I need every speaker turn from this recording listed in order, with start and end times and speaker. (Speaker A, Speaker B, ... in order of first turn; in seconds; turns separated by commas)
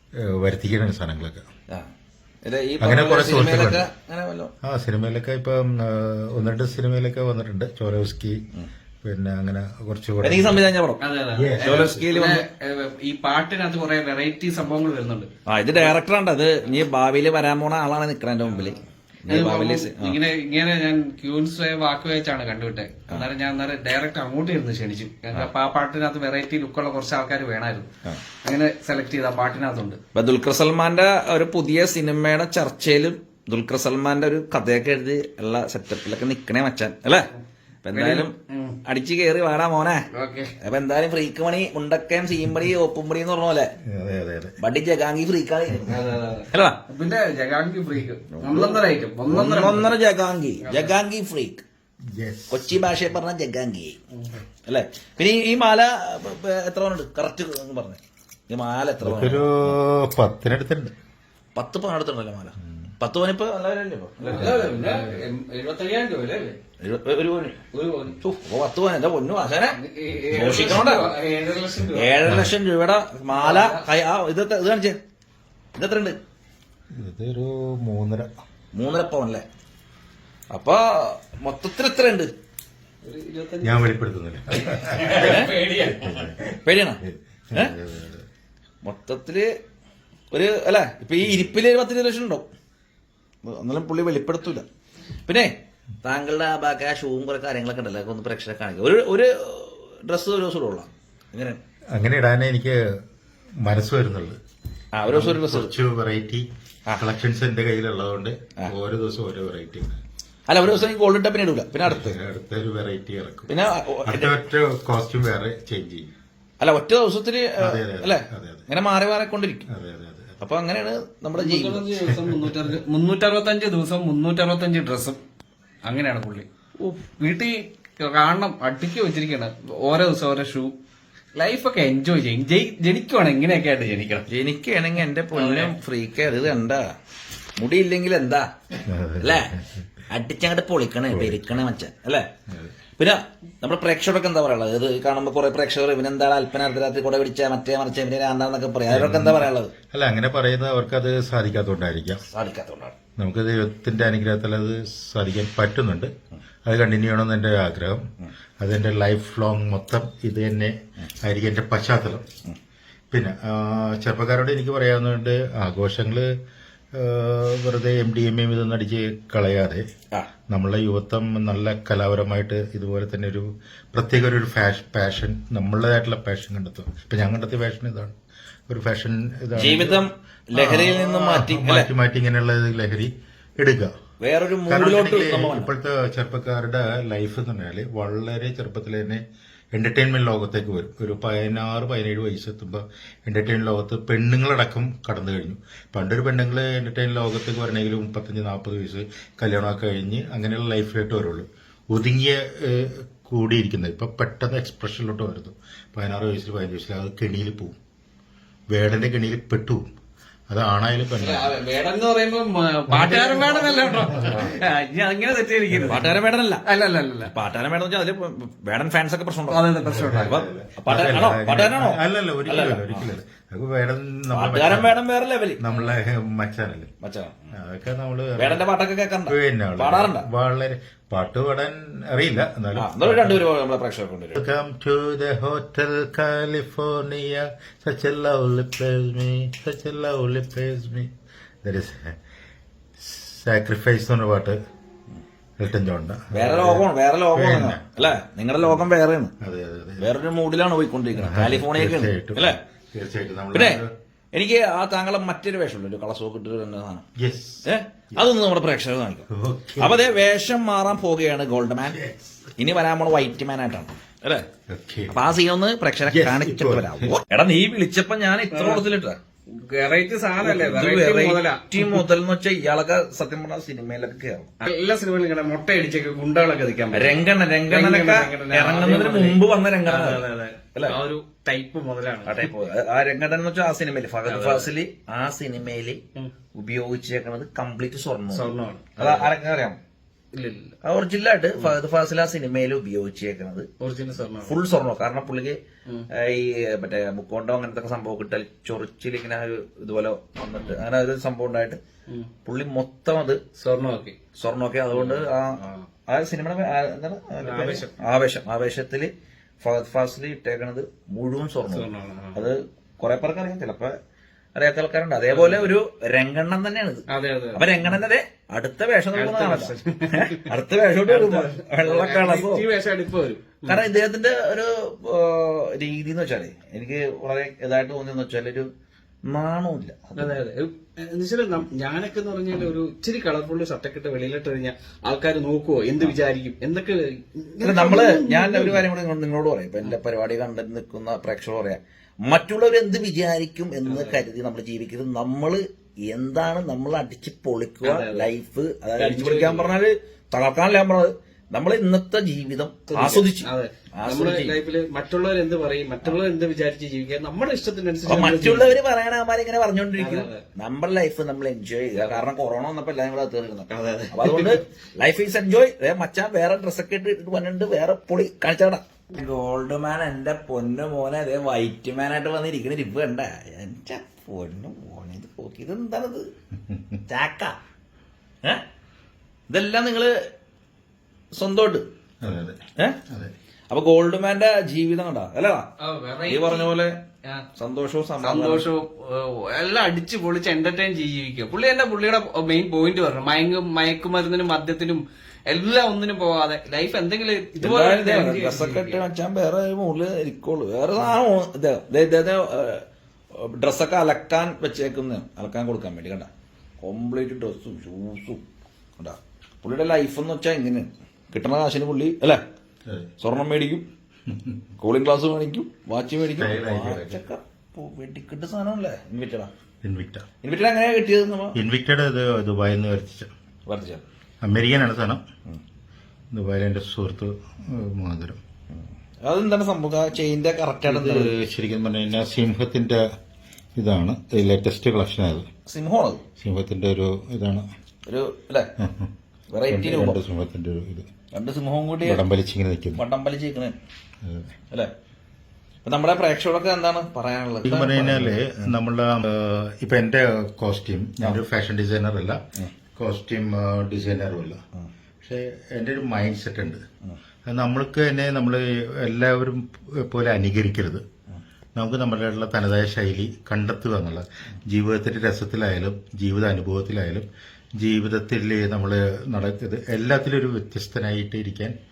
Speaker A: 0.2-1.4, Speaker B: 2.4-4.5, Speaker A: 2.8-3.9, Speaker A: 4.6-8.4, Speaker A: 9.0-10.7, Speaker B: 10.2-11.0, Speaker C: 11.0-15.3, Speaker A: 11.3-12.2, Speaker B: 11.6-12.4, Speaker B: 15.4-20.2, Speaker C: 19.3-27.9, Speaker C: 28.4-30.0, Speaker B: 30.1-37.3, Speaker B: 37.8-40.1, Speaker C: 37.9-38.8, Speaker C: 40.1-40.5, Speaker B: 40.6-43.7, Speaker A: 43.9-44.6, Speaker B: 44.6-46.0, Speaker C: 45.8-50.0, Speaker B: 46.5-46.8, Speaker B: 48.3-51.6, Speaker C: 50.6-51.0, Speaker A: 52.1-52.9, Speaker B: 52.5-54.0, Speaker C: 54.1-54.4, Speaker B: 54.6-59.8, Speaker A: 59.0-60.9, Speaker B: 61.5-64.6, Speaker C: 64.2-66.6, Speaker A: 64.3-65.2, Speaker B: 66.8-67.6, Speaker C: 67.7-68.2, Speaker B: 68.2-69.8, Speaker C: 69.7-72.2, Speaker B: 70.3-71.1, Speaker B: 71.9-75.0, Speaker A: 72.2-72.5, Speaker C: 73.3-73.8, Speaker B: 75.7-76.2, Speaker A: 76.9-78.3, Speaker B: 78.7-79.5, Speaker B: 80.5-82.3, Speaker C: 83.0-83.8, Speaker A: 83.6-86.4, Speaker C: 84.6-86.4, Speaker B: 85.1-85.5, Speaker B: 86.6-87.0, Speaker A: 87.0-88.2, Speaker B: 88.8-89.5, Speaker B: 90.3-92.5, Speaker A: 91.2-91.5, Speaker B: 93.4-94.7, Speaker B: 95.2-101.6, Speaker A: 101.9-102.8, Speaker A: 103.6-104.4, Speaker B: 104.9-105.7, Speaker A: 105.0-106.4, Speaker A: 107.0-110.0, Speaker B: 110.5-112.2, Speaker A: 110.7-110.9, Speaker A: 111.8-113.5, Speaker B: 113.5-114.3, Speaker A: 114.0-116.1, Speaker B: 116.6-119.7, Speaker A: 117.6-118.7, Speaker A: 119.7-120.3, Speaker B: 120.4-122.0, Speaker C: 121.3-125.2, Speaker A: 122.0-122.8, Speaker C: 125.8-130.7, Speaker C: 131.3-134.3, Speaker B: 134.3-136.8, Speaker C: 135.3-135.8, Speaker B: 137.6-138.5, Speaker A: 138.8-139.8, Speaker B: 139.2-139.5, Speaker B: 140.1-142.3, Speaker A: 141.1-141.6, Speaker A: 142.5-142.7, Speaker B: 143.0-149.7, Speaker A: 148.9-152.2, Speaker B: 152.3-153.0, Speaker A: 153.2-156.1, Speaker A: 156.6-158.0, Speaker A: 158.6-162.2, Speaker A: 163.1-166.3, Speaker A: 166.9-169.8, Speaker A: 170.5-178.1, Speaker A: 178.7-183.9, Speaker B: 179.6-181.9, Speaker B: 184.2-185.7, Speaker A: 184.7-189.2, Speaker A: 189.7-207.8, Speaker A: 208.7-209.8, Speaker A: 210.5-211.6, Speaker C: 211.2-217.3, Speaker A: 212.9-214.6, Speaker A: 215.7-216.1, Speaker B: 215.8-216.6, Speaker B: 217.2-219.7, Speaker C: 219.5-220.4, Speaker A: 219.8-225.0, Speaker B: 220.2-223.1, Speaker B: 224.3-225.6, Speaker A: 225.6-226.9, Speaker B: 227.0-227.5, Speaker A: 227.5-228.6, Speaker B: 228.4-230.2, Speaker A: 229.3-233.4, Speaker B: 232.8-234.4, Speaker A: 234.3-241.1, Speaker A: 241.6-242.2, Speaker A: 243.0-244.6, Speaker A: 245.6-247.9, Speaker B: 246.3-249.3, Speaker A: 249.4-250.1, Speaker B: 250.0-252.6, Speaker A: 251.2-253.9, Speaker B: 253.5-253.8, Speaker B: 254.3-257.0, Speaker A: 257.2-258.3, Speaker B: 257.6-259.3, Speaker A: 259.3-260.1, Speaker B: 259.8-262.0, Speaker A: 261.9-262.3, Speaker B: 262.6-264.4, Speaker A: 264.7-265.4, Speaker B: 265.1-269.2, Speaker A: 266.1-267.1, Speaker C: 268.5-268.9, Speaker C: 269.5-272.1, Speaker B: 270.4-274.5, Speaker C: 274.6-282.5, Speaker B: 276.9-281.0, Speaker B: 282.2-286.0, Speaker C: 284.3-284.7, Speaker B: 286.5-289.8, Speaker C: 288.3-289.3, Speaker C: 290.3-290.7, Speaker B: 290.8-293.7, Speaker C: 293.8-294.6, Speaker B: 294.4-295.6, Speaker B: 296.1-301.8, Speaker B: 302.4-303.4, Speaker C: 303.6-304.2, Speaker B: 304.4-314.0, Speaker C: 304.9-305.9, Speaker C: 307.4-307.9, Speaker C: 311.6-312.5, Speaker B: 314.5-322.6, Speaker C: 315.2-315.7, Speaker C: 317.1-317.8, Speaker C: 319.1-323.9, Speaker B: 323.6-328.7, Speaker B: 329.2-330.4, Speaker C: 330.1-338.9, Speaker B: 337.6-354.6, Speaker C: 343.9-344.2, Speaker C: 347.8-348.3, Speaker C: 349.0-349.8, Speaker C: 352.9-358.8, Speaker B: 358.1-376.3, Speaker C: 360.0-360.4, Speaker C: 363.7-364.6, Speaker A: 376.7-377.0, Speaker B: 377.1-377.6, Speaker B: 379.5-380.1, Speaker B: 381.3-381.8, Speaker A: 382.2-383.3, Speaker B: 383.7-385.7, Speaker C: 385.8-386.7, Speaker B: 386.3-387.0, Speaker B: 387.6-388.6, Speaker C: 388.2-399.0, Speaker B: 397.6-406.3, Speaker B: 406.8-408.5, Speaker B: 409.0-412.4, Speaker B: 413.2-413.8, Speaker A: 414.3-414.6, Speaker B: 414.8-419.5, Speaker A: 416.2-417.2, Speaker A: 419.8-420.3, Speaker B: 420.4-421.6, Speaker A: 421.5-423.3, Speaker B: 423.7-424.0, Speaker A: 424.4-425.2, Speaker A: 426.3-428.4, Speaker B: 428.7-431.3, Speaker A: 430.9-433.0, Speaker A: 433.8-435.4, Speaker B: 435.7-436.2, Speaker A: 436.4-437.6, Speaker B: 438.1-438.7, Speaker A: 438.8-439.1, Speaker B: 439.5-440.2, Speaker A: 439.7-441.1, Speaker B: 441.3-442.2, Speaker A: 442.0-443.0, Speaker B: 442.9-443.7, Speaker A: 444.2-444.5, Speaker B: 445.8-448.7, Speaker A: 447.6-452.4, Speaker A: 452.9-454.6, Speaker A: 455.2-456.8, Speaker A: 457.4-461.0, Speaker A: 461.8-467.3, Speaker A: 467.8-471.7